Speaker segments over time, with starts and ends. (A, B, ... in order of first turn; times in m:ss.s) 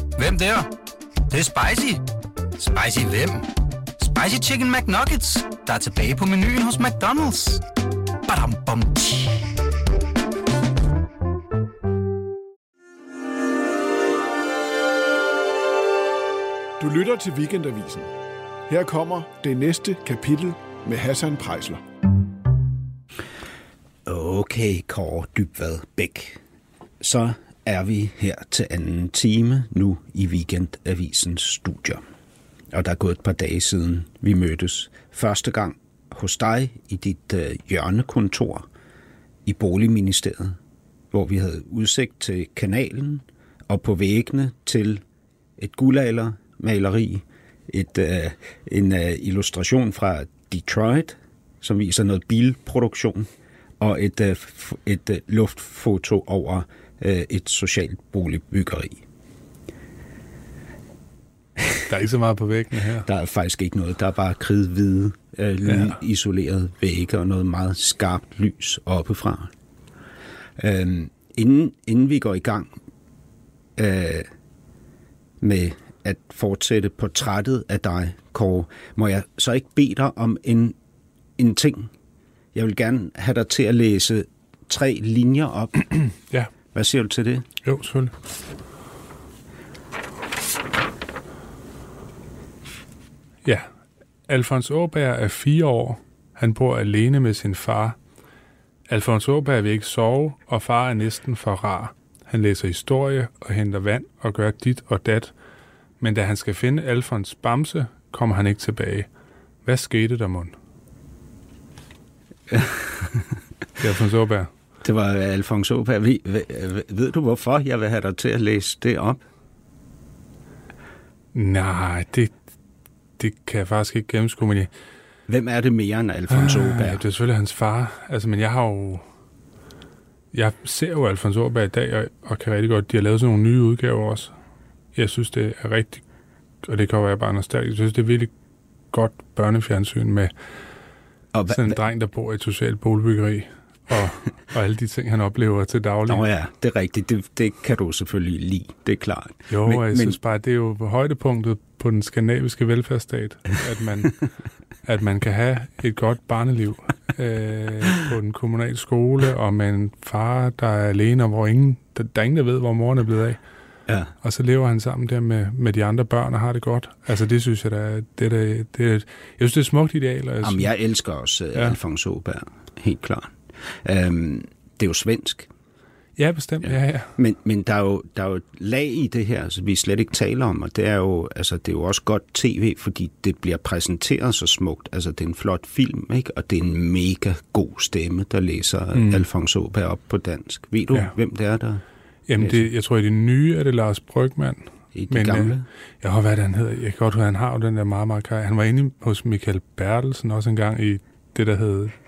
0:00.2-0:00.7 A
0:01.3-0:02.0 A
0:02.6-0:07.6 A
0:08.3-0:09.4 A
0:16.8-0:18.1 B
0:18.7-0:21.8 B
0:24.0-0:26.4 C
0:27.0-0:32.0 C
0:32.7-0:38.6 C
0:39.4-0:40.6 C
0:41.1-0:45.0 C
0:45.6-0:53.3 C
0:53.8-0:59.0 C
1:01.9-1:03.1 D
1:03.0-1:09.5 C
1:10.6-1:12.7 C
1:13.8-1:14.3 C
1:15.4-1:20.8 C
1:21.4-1:21.9 C
1:22.5-1:25.9 C
1:26.7-1:27.4 C
1:27.6-1:28.1 D
1:34.3-1:38.0 D
1:38.9-1:45.3 D
1:46.0-1:49.1 D
1:49.6-1:50.5 D
1:52.5-1:53.3 C
1:53.8-1:54.5 D
1:54.8-1:59.2 C
2:01.3-2:02.3 D
2:03.2-2:04.7 D
2:05.3-2:07.0 C
2:06.3-2:09.0 D
2:10.3-2:14.3 D
2:14.9-2:16.0 D
2:16.6-2:18.3 D
2:18.9-2:20.3 D
2:21.3-2:21.8 C
2:21.5-2:26.2 D
2:26.1-2:30.2 C
2:29.5-2:34.2 D
2:34.8-2:43.4 D
2:43.9-2:44.1 C
2:44.2-2:50.7 D
2:50.4-2:55.5 C
2:56.2-2:57.1 D
2:56.6-3:11.8 C
3:08.9-3:09.2 D
3:12.3-3:21.9 D
3:12.4-3:12.7 C
3:14.9-3:15.6 C